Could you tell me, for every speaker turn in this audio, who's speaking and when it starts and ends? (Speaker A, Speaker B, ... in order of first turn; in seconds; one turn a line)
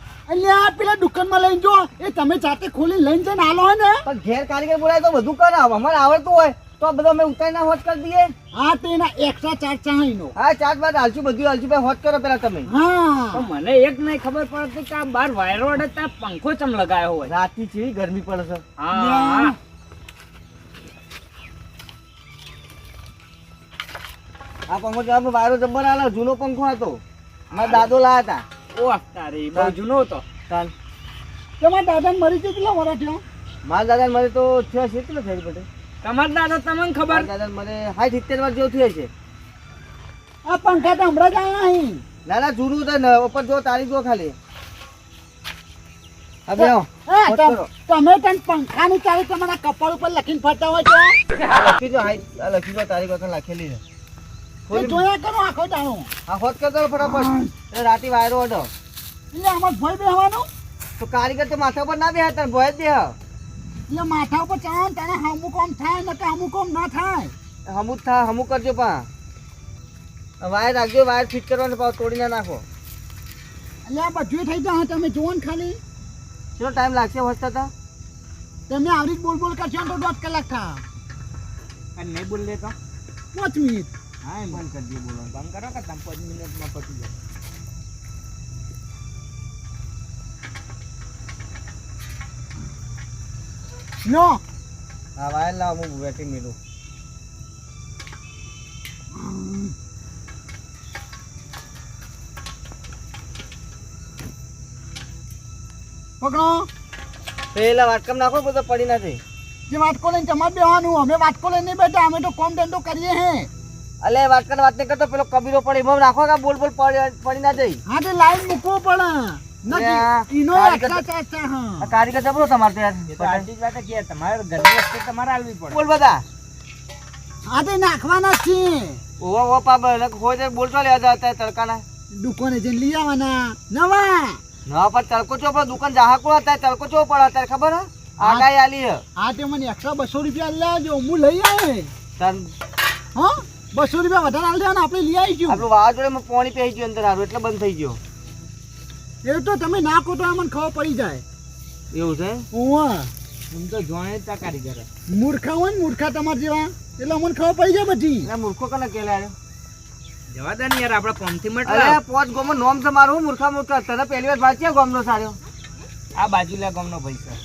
Speaker A: 0.3-4.0
Speaker B: 4.0-8.3
Speaker A: 8.5-10.3
Speaker B: 10.4-12.7
Speaker A: 12.7-13.5
Speaker C: 13.3-17.3
Speaker B: 17.3-18.6
Speaker C: 18.8-19.6
Speaker A: 18.9-19.6
Speaker B: 24.7-27.0
Speaker B: 27.5-28.4
Speaker C: 27.6-27.9
Speaker C: 28.7-30.2
Speaker A: 31.6-33.2
Speaker B: 33.6-35.7
Speaker C: 36.0-37.3
Speaker B: 37.1-39.1
Speaker A: 40.5-42.0
Speaker B: 42.3-44.4
Speaker B: 46.5-47.7
Speaker A: 46.6-51.2
Speaker B: 51.5-53.8
Speaker B: 54.7-55.0
Speaker A: 54.7-56.1
Speaker B: 56.3-58.7
Speaker A: 57.0-57.5
Speaker A: 59.3-60.5
Speaker B: 61.0-63.2
Speaker A: 63.9-67.3
Speaker B: 67.7-69.1
Speaker B: 70.4-72.6
Speaker A: 73.8-75.8
Speaker B: 76.6-77.7
Speaker A: 78.7-80.8
Speaker C: 82.0-82.8
Speaker A: 83.3-83.9
Speaker C: 84.2-84.6
Speaker B: 84.5-85.3
Speaker C: 85.3-87.1
Speaker A: 94.0-94.4
Speaker B: 95.2-96.6
Speaker A: 99.2-99.7
Speaker A: 106.2-106.7
Speaker B: 107.5-109.2
Speaker A: 109.7-113.5
Speaker B: 114.0-117.8
Speaker A: 117.9-122.0
Speaker B: 119.7-121.0
Speaker B: 121.8-123.5
Speaker C: 123.1-125.8
Speaker B: 125.7-126.2
Speaker A: 127.5-129.0
Speaker B: 129.2-131.8
Speaker A: 132.1-134.4
Speaker B: 134.7-139.0
Speaker A: 138.2-138.5
Speaker A: 139.2-141.9
Speaker B: 142.2-142.5
Speaker A: 143.2-145.7
Speaker B: 145.5-148.0
Speaker A: 149.2-151.2
Speaker B: 151.9-152.4
Speaker A: 152.5-153.1
Speaker C: 153.5-154.9
Speaker A: 155.1-158.3
Speaker B: 158.2-159.3
Speaker C: 160.3-162.0
Speaker B: 161.7-165.4
Speaker C: 166.2-167.4